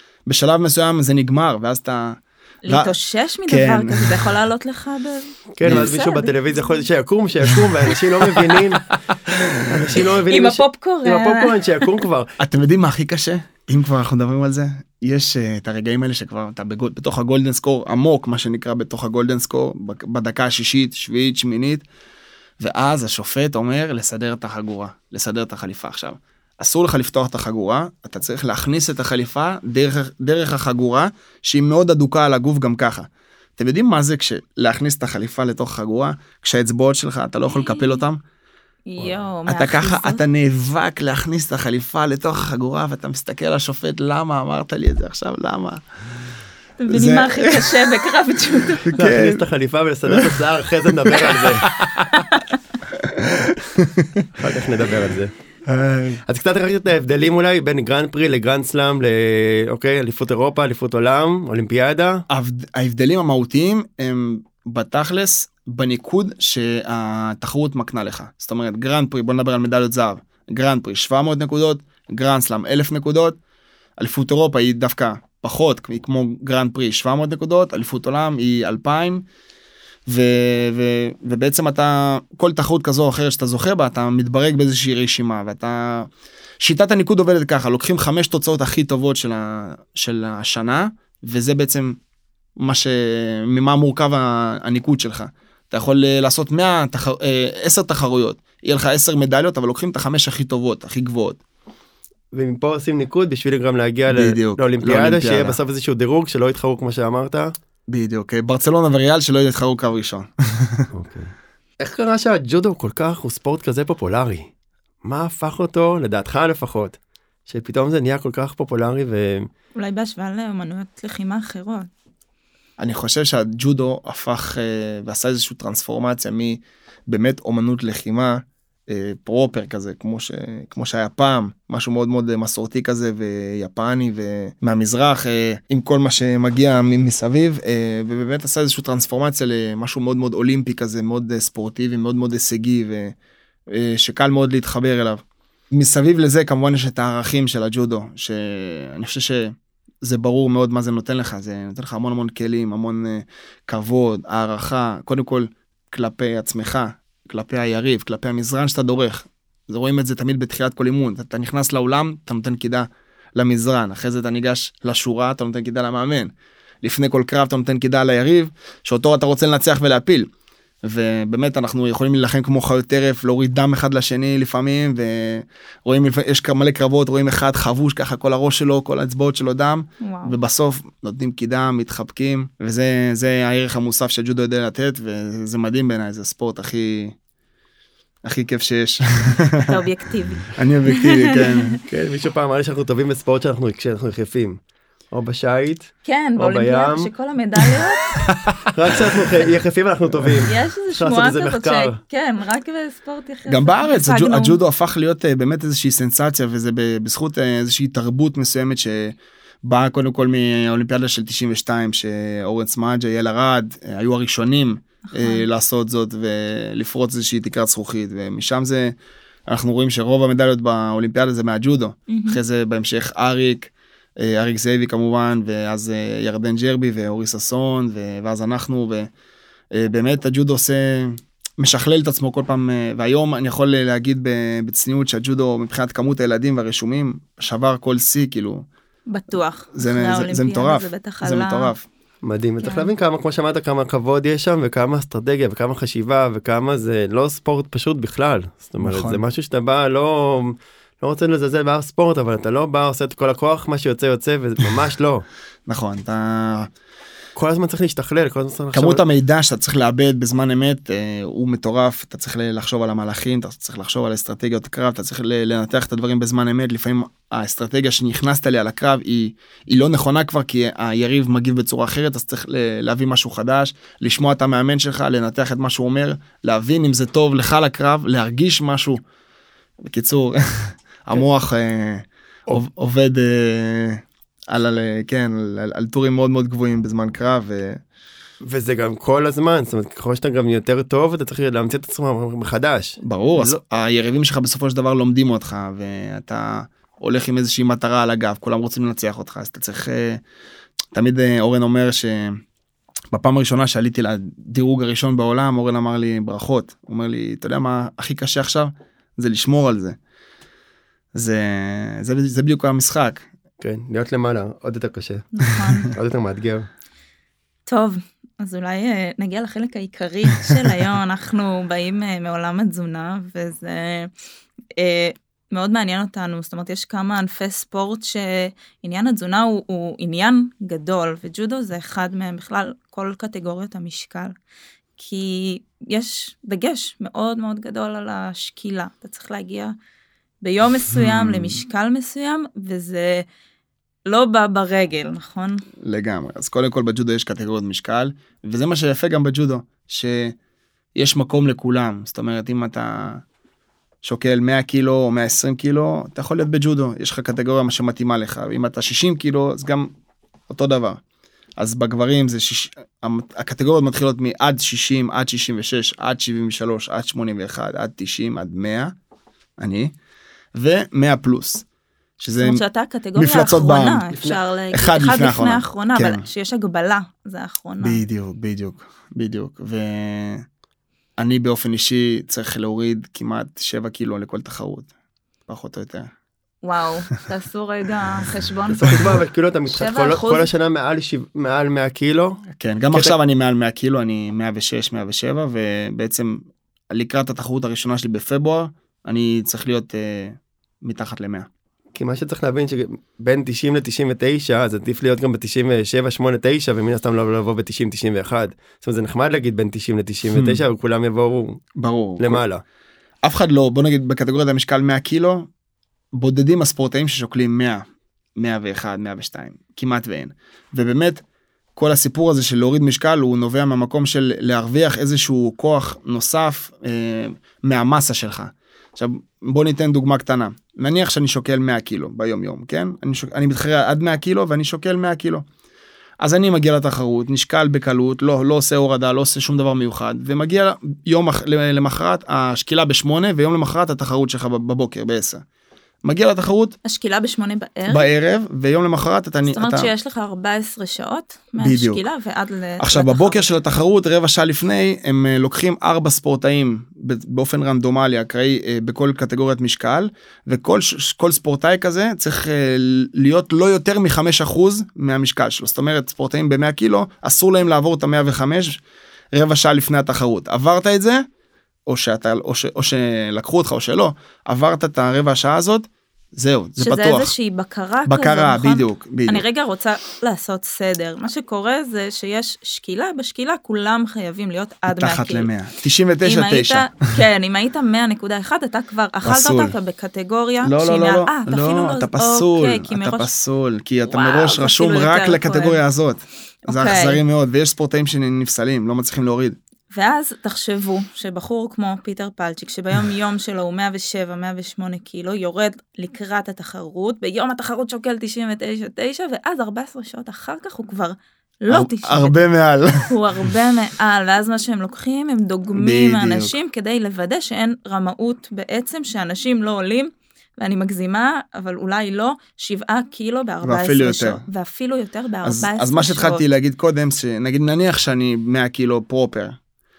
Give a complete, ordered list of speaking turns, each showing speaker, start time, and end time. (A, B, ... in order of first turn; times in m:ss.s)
0:00.2-0:02.9 A
0:02.6-0:06.8 B
0:03.5-0:04.3 A
0:05.6-0:12.3 C
0:05.6-0:05.9 A
0:08.4-0:08.6 A
0:10.3-0:12.0 B
0:12.4-0:21.8 A
0:22.6-0:38.2 A
0:37.5-0:38.0 B
0:38.9-0:40.2 B
0:39.5-0:45.8 A
0:46.8-0:49.0 B
0:46.9-0:47.9 A
0:48.8-0:49.4 A
0:49.0-0:51.6 C
0:50.1-0:50.4 A
0:51.0-0:52.1 A
0:52.1-0:52.6 B
0:53.0-0:54.2 A
0:54.3-0:55.3 C
0:55.7-0:56.2 A
0:56.2-1:02.2 C
1:02.3-1:13.4 A
1:14.0-1:19.2 A
1:20.1-1:26.1 A
1:26.6-1:32.0 A
1:32.6-1:41.4 A
1:42.3-1:47.5 C
1:44.1-1:45.6 A
1:47.9-1:50.9 A
1:50.9-1:54.5 C
1:55.0-1:59.5 C
1:59.8-2:01.9 B
2:02.8-2:23.1 A
2:23.7-2:50.3 A
2:50.8-3:07.1 A
3:00.0-3:00.4 B
3:08.2-3:09.9 A
3:09.7-3:11.7 B
3:10.5-3:11.8 A
3:11.9-3:14.6 C
3:15.1-3:17.1 C
3:16.0-3:18.2 B
3:18.7-3:22.0 C
3:20.4-3:24.6 B
3:23.5-3:38.9 A
3:35.1-3:35.4 B
3:39.5-3:49.1 A
3:42.1-3:42.4 B
3:49.7-3:58.6 A
3:59.1-4:01.7 B
3:59.7-4:01.8 A
4:02.2-4:15.2 C
4:02.6-4:02.9 B
4:08.8-4:09.2 A
4:15.7-4:16.7 A
4:17.3-4:19.0 C
4:18.7-4:39.0 A
4:39.8-4:47.8 A
4:48.4-4:53.5 C
4:53.0-5:00.2 A
5:00.9-5:02.4 A
5:03.1-5:10.0 A
5:11.1-5:13.2 A
5:13.6-5:16.7 C
5:15.3-5:15.9 B
5:17.6-5:24.1 B
5:24.8-5:34.3 B
5:35.0-5:39.7 B
5:40.4-5:43.2 B
5:40.9-5:41.6 A
5:44.1-5:45.6 B
5:45.8-5:50.4 A
5:50.9-5:53.2 A
5:54.0-5:59.9 A
6:00.5-6:01.0 A
6:01.6-6:08.9 A
6:09.6-6:09.9 A
6:10.5-6:11.6 A
6:12.2-6:12.6 A
6:12.4-6:18.0 B
6:13.2-6:14.2 A
6:14.7-6:16.2 A
6:17.8-6:20.4 A
6:21.2-6:24.9 A
6:25.5-6:26.1 A
6:26.6-6:30.5 B
6:28.7-6:32.4 C
6:32.6-6:41.5 A
6:41.9-6:51.6 C
6:50.3-6:50.6 A
6:51.8-6:52.4 A
6:52.2-6:52.6 C
6:53.2-6:55.5 A
6:56.1-6:57.8 A
6:58.4-7:01.2 A
7:01.8-7:15.4 A
7:16.2-7:25.4 A
7:26.0-7:26.8 A
7:26.8-7:28.1 B
7:27.9-7:29.9 A
7:29.5-7:33.6 B
7:31.6-7:32.0 A
7:32.8-7:48.8 A
7:49.3-7:51.2 A
7:51.9-7:57.3 A
7:56.8-8:05.5 B
7:58.1-7:59.4 A
8:05.0-8:07.2 A
8:06.2-8:13.3 B
8:09.2-8:09.7 A
8:10.6-8:19.6 A
8:14.1-8:15.8 B
8:16.7-8:17.2 B
8:19.9-8:32.4 B
8:31.7-8:33.5 A
8:33.0-8:46.4 B
8:35.7-8:36.5 A
8:43.6-8:44.4 A
8:45.4-8:49.6 A